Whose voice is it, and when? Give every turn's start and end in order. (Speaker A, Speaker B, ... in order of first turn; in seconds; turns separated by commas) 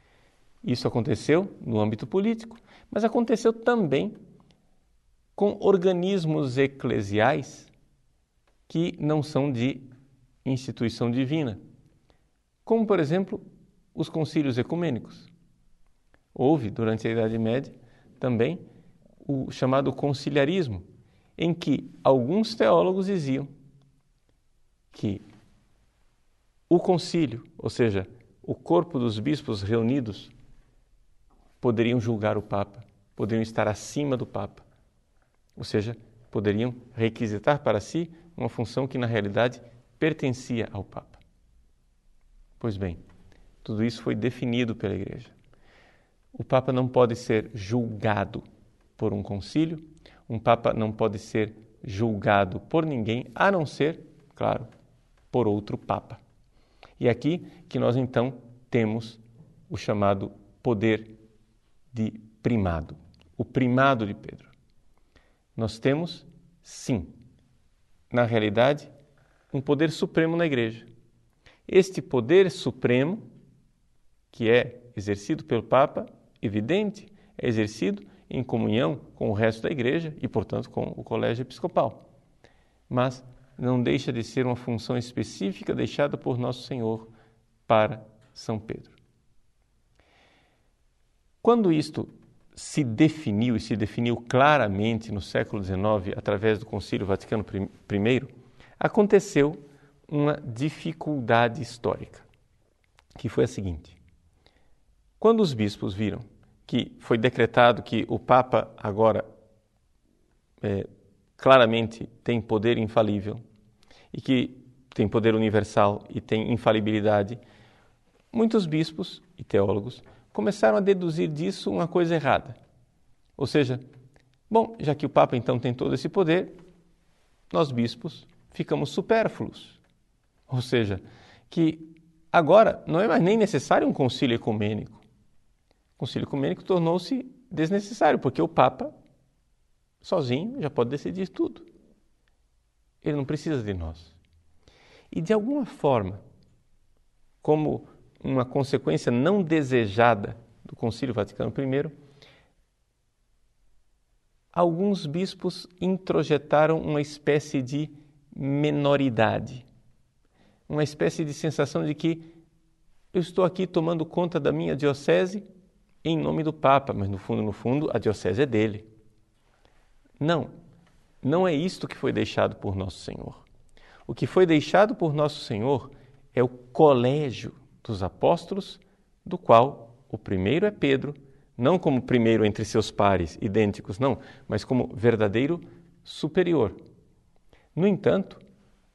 Speaker A: 0.6-4.2, Speaker A: 5.3-7.7, Speaker A: 8.7-9.9, Speaker A: 10.4-11.6, Speaker A: 12.6-15.3, Speaker A: 16.3-18.6, Speaker A: 19.2-20.9, Speaker A: 21.4-23.5, Speaker A: 24.9-25.2, Speaker A: 26.7-30.3, Speaker A: 31.6-34.6, Speaker A: 35.6-41.2, Speaker A: 42.6-43.0, Speaker A: 43.6-45.3, Speaker A: 46.3-48.4, Speaker A: 49.0-54.7, Speaker A: 55.3-56.2, Speaker A: 57.0-61.1, Speaker A: 61.9-64.5, Speaker A: 65.5-67.1, Speaker A: 68.1-68.9, Speaker A: 69.5-70.9, Speaker A: 71.7-73.3, Speaker A: 74.3-82.0, Speaker A: 82.9-87.1, Speaker A: 87.7-89.0, Speaker A: 91.4-102.3, Speaker A: 103.2-104.0, Speaker A: 105.2-109.2, Speaker A: 110.6-113.4, Speaker A: 114.1-117.4, Speaker A: 118.3-122.6, Speaker A: 123.4-123.8, Speaker A: 124.5-126.5, Speaker A: 127.5-129.8, Speaker A: 130.5-135.0, Speaker A: 136.0-138.9, Speaker A: 140.0-141.7, Speaker A: 143.0-144.2, Speaker A: 145.1-146.2, Speaker A: 147.4-151.9, Speaker A: 154.5-159.7, Speaker A: 160.7-162.3, Speaker A: 163.1-165.4, Speaker A: 166.0-168.9, Speaker A: 170.2-170.5, Speaker A: 171.2-173.4, Speaker A: 174.1-186.8, Speaker A: 187.7-188.4